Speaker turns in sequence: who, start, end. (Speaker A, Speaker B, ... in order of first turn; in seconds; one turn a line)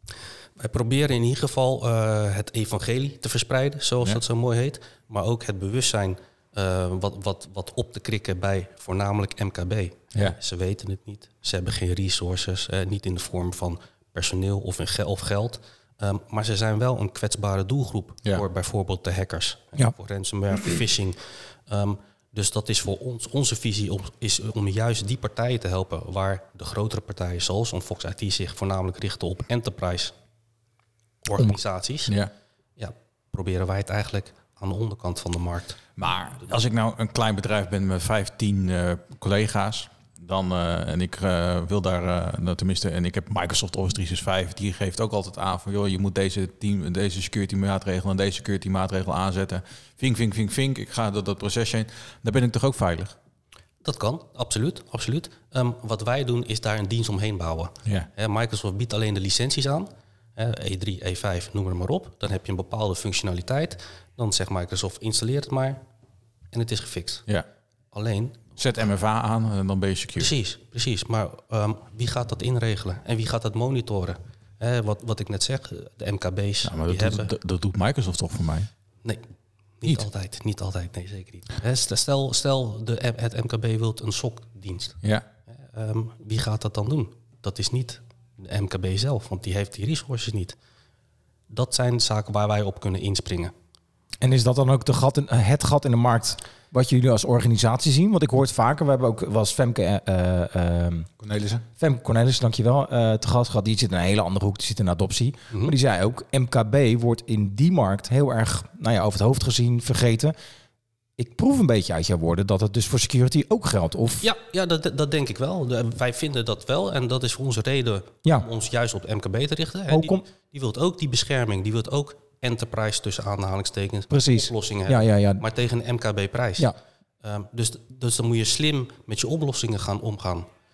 Speaker A: 0.6-30.1
Speaker A: 31.2-32.1
Speaker A: 32.8-35.8
Speaker B: 36.0-53.1
Speaker A: 53.8-65.8
Speaker A: 66.5-67.2
Speaker A: 67.9-68.4
Speaker B: 68.5-70.3
Speaker A: 70.2-77.3
Speaker B: 76.6-78.7
Speaker A: 79.8-85.0
Speaker A: 85.5-90.5
Speaker A: 91.5-93.5
Speaker C: 94.2-101.1
Speaker B: 101.2-101.6
Speaker C: 101.8-110.3
Speaker C: 111.2-114.2
Speaker A: 114.2-130.5
Speaker C: 119.9-120.2
Speaker C: 124.1-125.4